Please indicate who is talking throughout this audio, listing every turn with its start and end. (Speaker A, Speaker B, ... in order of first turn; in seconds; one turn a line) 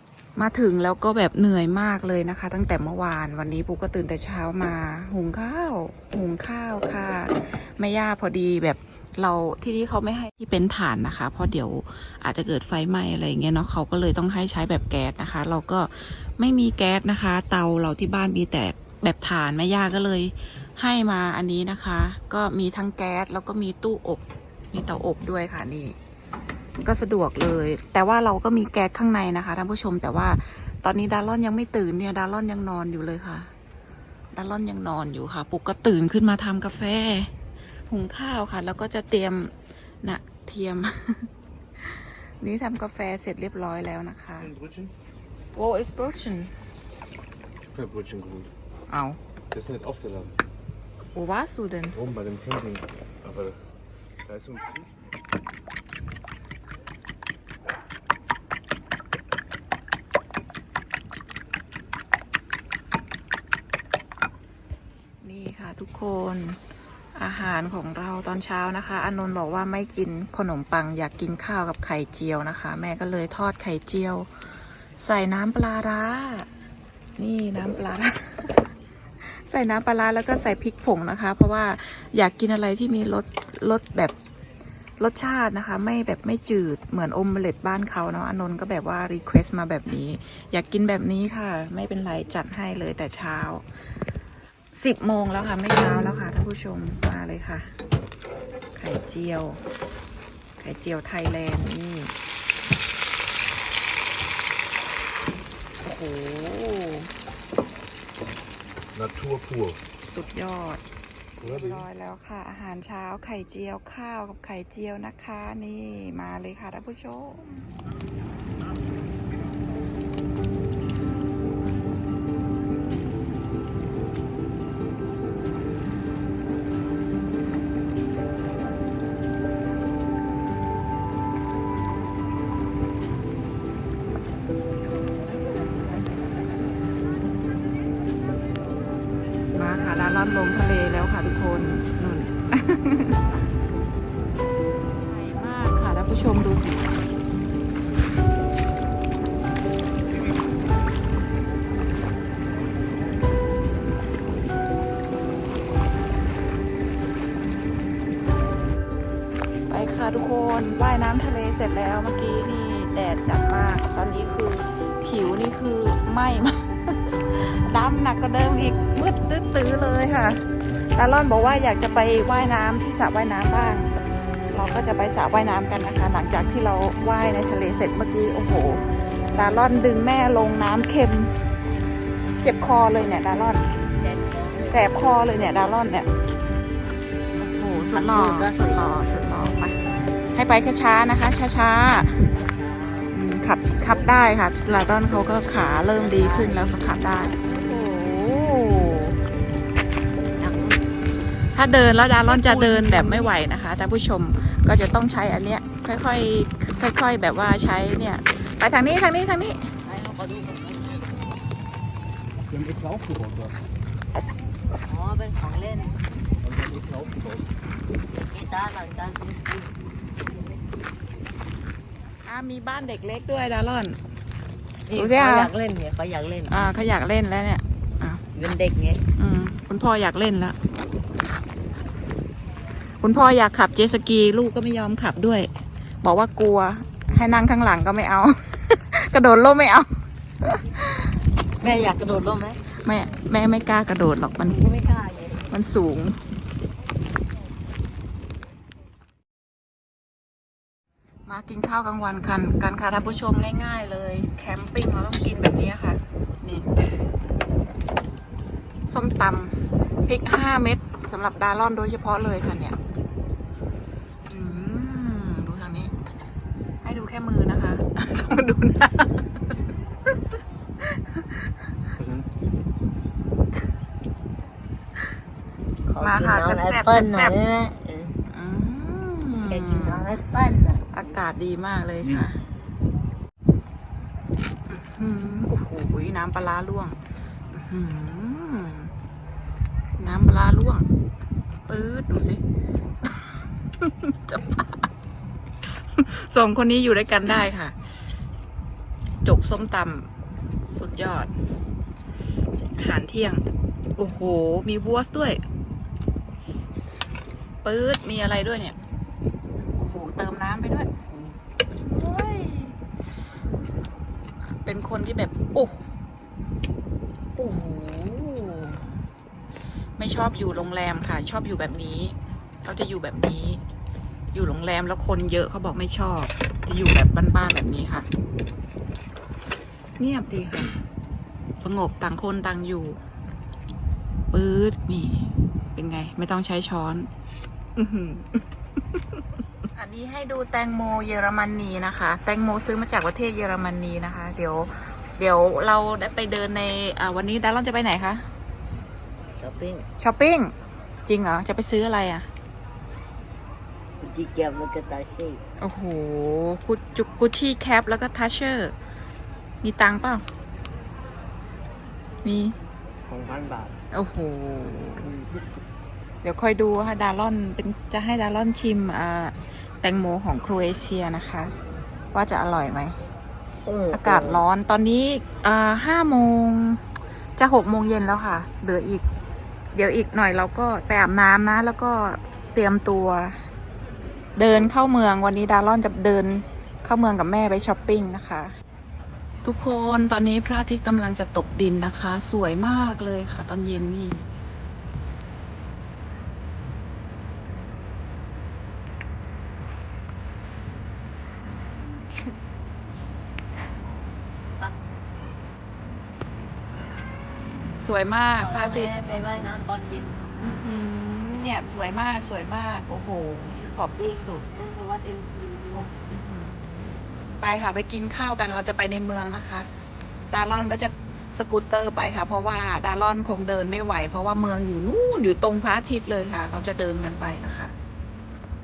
Speaker A: 0.3-25.9
Speaker A: 26.8-33.5
Speaker A: 34.3-37.3
Speaker A: 37.9-41.3
Speaker A: 41.8-44.5
Speaker B: 44.5-44.9
Speaker A: 45.5-46.5
Speaker B: 47.7-48.5
Speaker A: 48.9-49.2
Speaker B: 49.5-50.4
Speaker A: 51.1-52.0
Speaker B: 52.0-53.6
Speaker B: 54.2-54.9
Speaker A: 65.2-66.6
Speaker A: 67.2-74.3
Speaker A: 75.0-76.5
Speaker A: 77.2-78.6
Speaker A: 79.2-84.1
Speaker A: 85.0-93.6
Speaker A: 94.7-97.7
Speaker A: 98.7-99.6
Speaker A: 100.6-102.1
Speaker A: 105.8-107.1
Speaker B: 108.9-109.8
Speaker A: 110.0-110.8
Speaker A: 111.4-117.7
Speaker B: 111.4-111.8
Speaker A: 139.5-143.1
Speaker A: 145.1-147.0
Speaker A: 159.7-173.9
Speaker A: 174.5-178.8
Speaker A: 179.3-181.3
Speaker A: 182.4-183.7
Speaker C: 183.8-185.8
Speaker A: 184.7-186.1
Speaker A: 187.4-189.8
Speaker C: 187.9-189.1
Speaker A: 190.3-192.3
Speaker C: 192.4-193.2
Speaker A: 193.1-199.2
Speaker C: 193.8-194.2
Speaker C: 195.8-197.3
Speaker C: 200.2-200.8
Speaker A: 201.5-209.7
Speaker C: 202.2-203.3
Speaker C: 209.8-211.2
Speaker B: 212.6-213.4
Speaker C: 214.8-216.0
Speaker B: 216.4-217.4
Speaker C: 218.1-219.7
Speaker A: 222.2-224.0
Speaker C: 224.9-226.7
Speaker A: 224.9-225.5
Speaker A: 226.5-228.3
Speaker C: 228.3-229.0
Speaker A: 229.2-230.6
Speaker A: 233.0-235.5
Speaker A: 236.0-241.1
Speaker C: 241.6-242.6
Speaker A: 242.8-244.6
Speaker C: 244.4-245.5
Speaker A: 245.5-246.2
Speaker A: 251.2-256.7
Speaker A: 258.9-262.8
Speaker A: 264.3-265.9
Speaker A: 266.8-269.5
Speaker A: 270.9-271.2
Speaker C: 275.9-278.2
Speaker A: 276.0-277.4
Speaker A: 278.3-280.1
Speaker C: 279.4-280.9
Speaker A: 280.9-282.4
Speaker A: 284.7-287.0
Speaker A: 287.5-288.9
Speaker A: 290.0-290.9
Speaker A: 291.7-292.4
Speaker A: 293.8-294.9
Speaker A: 295.8-297.8
Speaker A: 299.2-300.1
Speaker A: 300.7-301.3
Speaker A: 302.8-303.4
Speaker A: 304.0-305.4
Speaker A: 307.6-308.7
Speaker A: 309.7-312.8
Speaker A: 314.5-315.8
Speaker A: 317.4-318.9
Speaker A: 320.0-323.6
Speaker A: 324.3-328.1
Speaker A: 330.0-330.8
Speaker A: 331.6-333.0
Speaker A: 334.3-337.1
Speaker A: 337.8-339.2
Speaker A: 339.7-348.2
Speaker C: 349.4-349.9
Speaker A: 350.0-350.5
Speaker A: 351.1-352.3
Speaker C: 354.0-355.4
Speaker A: 355.6-358.7
Speaker A: 359.6-360.2
Speaker A: 362.2-362.6
Speaker C: 363.1-363.7
Speaker A: 363.9-365.1
Speaker C: 365.0-365.4
Speaker A: 366.2-371.5
Speaker A: 372.1-372.9
Speaker C: 373.6-374.4
Speaker A: 373.9-376.8
Speaker A: 377.4-379.0
Speaker A: 379.7-383.4
Speaker A: 384.4-388.5
Speaker A: 389.4-394.2
Speaker A: 407.8-409.0
Speaker C: 408.4-410.2
Speaker A: 410.4-414.4
Speaker C: 414.0-415.9
Speaker A: 417.4-419.7
Speaker A: 420.3-427.7